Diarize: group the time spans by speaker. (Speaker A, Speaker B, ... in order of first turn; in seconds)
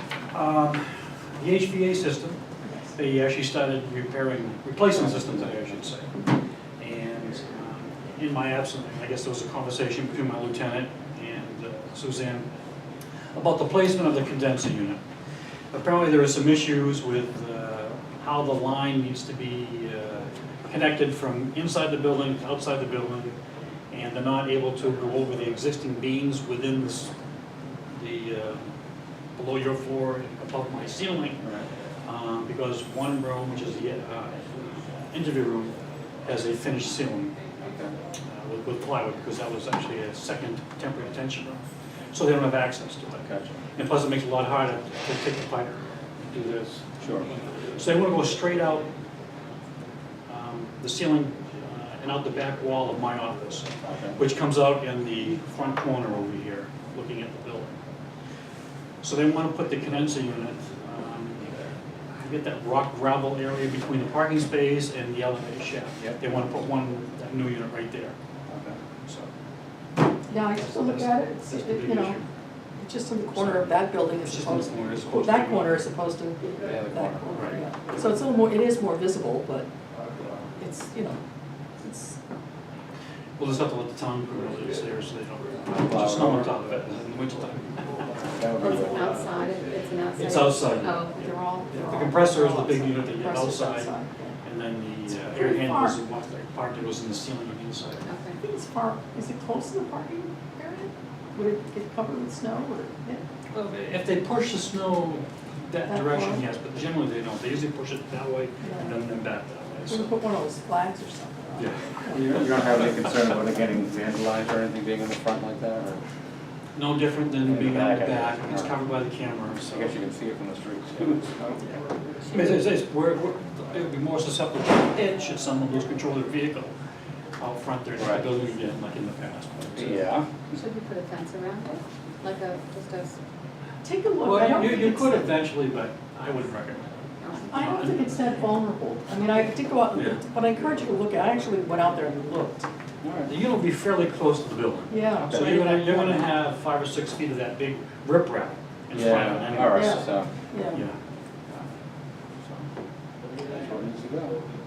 Speaker A: 0.3-2.4, 3.0-6.1, 6.8-12.5, 13.3-15.0, 15.7-23.4, 23.9-27.1, 27.9-28.7, 29.4-31.4, 32.0-37.4, 38.2-48.9, 50.3-57.8, 59.0-68.2, 70.5-72.2, 73.4-75.8, 83.4-88.3, 90.2-91.0, 91.7-93.9, 94.4-98.1, 103.5-110.1, 111.6-112.6, 116.7-119.9, 122.3-126.7, 127.4-130.1, 134.2-136.9, 137.5-138.1, 139.9-140.2, 143.3-150.1, 150.7-150.9
Speaker B: 37.6-37.9, 43.2-43.6, 47.0-47.3, 53.8-54.2, 68.5-68.8, 76.6-77.2, 85.8-86.5, 88.3-89.2, 112.1-116.0, 117.4-118.7, 119.7-121.6, 128.0-128.2, 129.8-130.5, 143.0-143.3, 148.9-150.3, 153.5-154.4
Speaker C: 70.3-72.2, 72.8-79.7, 80.6-81.2, 81.8-82.2, 91.2-94.3, 95.1-96.0, 98.4-103.2, 105.9-106.4, 108.6-109.0, 109.9-112.4, 133.8-135.3, 137.5-142.7, 144.9-146.3, 149.7-150.8
Speaker D: 88.6-91.2, 98.0-98.4, 130.5-133.2, 137.2-137.5